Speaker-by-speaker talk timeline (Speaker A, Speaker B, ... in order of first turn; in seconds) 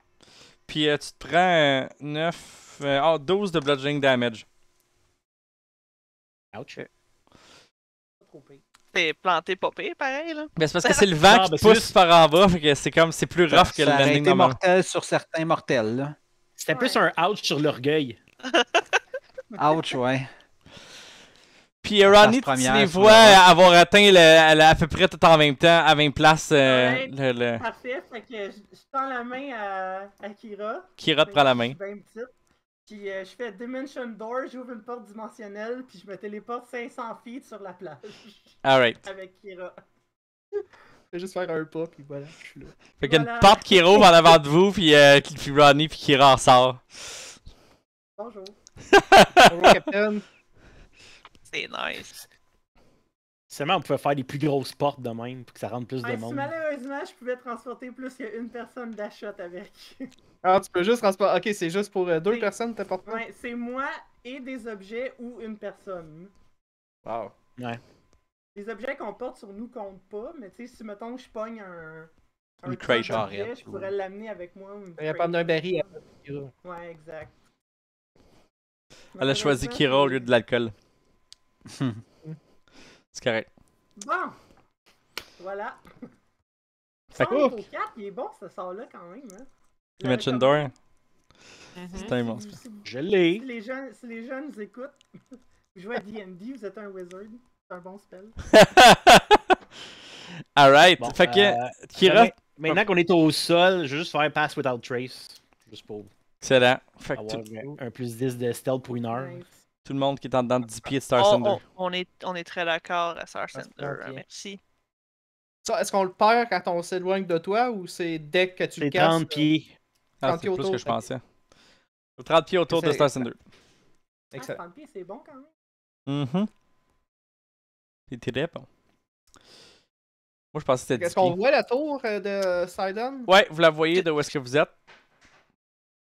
Speaker A: 0.7-4.5, 10.6-14.6, 21.8-27.6, 31.0-31.8, 38.6-39.0, 43.0-47.2, 48.9-49.7, 72.7-73.2, 79.2-80.7, 83.1-83.5, 90.0-90.7, 92.0-92.6, 98.5-99.5, 100.6-102.8, 106.4-107.5, 109.8-111.6, 120.2-121.2, 122.2-123.4, 126.1-126.5, 128.1-128.7, 130.5-131.4, 133.3-134.7
Speaker B: 6.5-6.8, 11.2-11.9, 16.6-18.2, 53.5-56.5, 92.8-93.5, 101.0-106.1, 107.1-109.4, 118.8-119.8
Speaker C: 8.2-8.6, 16.7-17.0, 26.6-32.3, 32.9-39.8, 43.0-44.1, 48.2-48.5, 56.0-60.1, 62.3-66.3, 68.5-72.1, 72.6-75.9, 76.6-77.4, 79.2-80.3, 84.0-84.4, 85.4-85.8, 87.1-89.5, 90.0-90.7, 91.9-95.0, 95.7-98.5, 109.1-109.5, 124.3-125.5
Speaker D: 8.9-11.0, 18.4-18.8, 51.5-52.2, 111.2-114.6
Speaker E: 13.5-16.2, 19.6-20.3, 22.1-23.4, 72.7-73.9, 81.7-82.0
Speaker F: 41.1-42.8, 49.5-50.3, 60.4-63.2, 67.0-67.3, 75.0-76.5, 87.2-87.6, 113.5-114.2, 115.6-119.5, 120.2-121.0, 122.7-123.3, 124.3-124.6, 131.0-133.3